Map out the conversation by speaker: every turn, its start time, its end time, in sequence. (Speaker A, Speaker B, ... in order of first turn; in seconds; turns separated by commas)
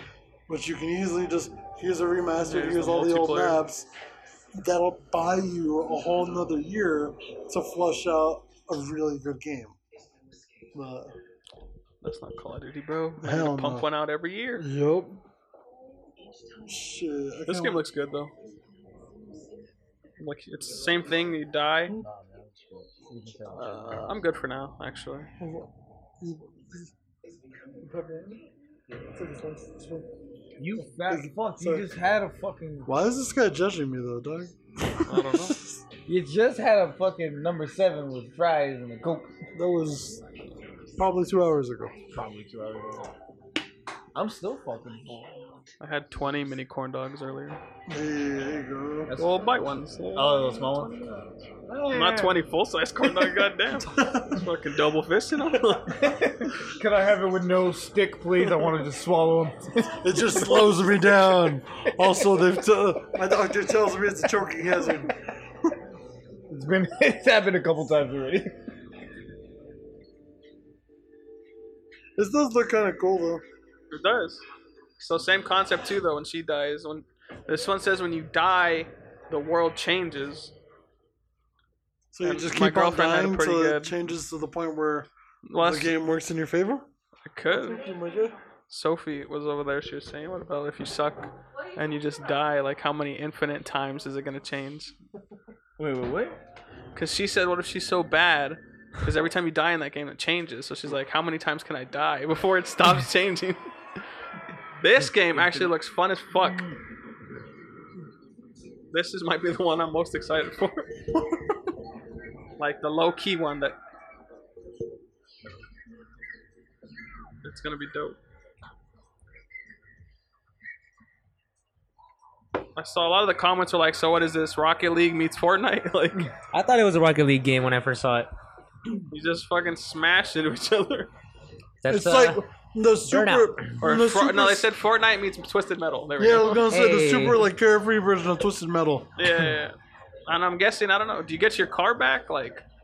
Speaker A: 0.5-3.9, Speaker B: 2.4-3.6, Speaker A: 4.5-9.8, Speaker A: 10.7-11.2, Speaker B: 12.0-14.7, Speaker A: 13.2-13.9, Speaker A: 14.6-15.2, Speaker A: 16.6-17.9, Speaker B: 17.5-18.3, Speaker B: 20.2-21.9, Speaker C: 22.0-24.1, Speaker B: 23.5-25.3, Speaker A: 25.4-26.9, Speaker A: 27.8-28.4, Speaker A: 29.0-30.1, Speaker C: 30.6-32.9, Speaker A: 30.8-31.9, Speaker A: 32.9-35.8, Speaker B: 35.0-35.6, Speaker C: 36.0-39.3, Speaker A: 39.5-40.2, Speaker A: 40.9-42.0, Speaker C: 42.1-43.1, Speaker C: 44.1-45.4, Speaker B: 45.8-47.6, Speaker A: 47.9-49.1, Speaker C: 49.1-49.4, Speaker B: 49.1-50.5, Speaker C: 50.1-52.4, Speaker B: 51.9-56.2, Speaker A: 53.9-54.5, Speaker C: 55.9-62.4, Speaker A: 59.9-65.7, Speaker C: 66.5-68.5, Speaker A: 72.2-73.4, Speaker B: 73.9-74.4, Speaker B: 75.0-80.5, Speaker A: 82.1-86.9, Speaker B: 82.2-84.0, Speaker B: 85.5-85.9, Speaker B: 87.2-87.8, Speaker A: 87.5-88.3, Speaker B: 88.7-94.9, Speaker C: 95.8-96.3, Speaker B: 96.9-104.0, Speaker B: 104.8-106.7, Speaker B: 108.9-111.1, Speaker B: 112.6-113.8, Speaker B: 117.4-118.2, Speaker B: 122.8-126.3, Speaker D: 126.5-128.3, Speaker B: 129.1-131.1, Speaker D: 131.8-132.4, Speaker A: 131.9-134.7, Speaker D: 133.1-133.7, Speaker B: 133.8-136.7, Speaker A: 136.2-139.1, Speaker D: 136.7-137.4, Speaker B: 139.2-142.6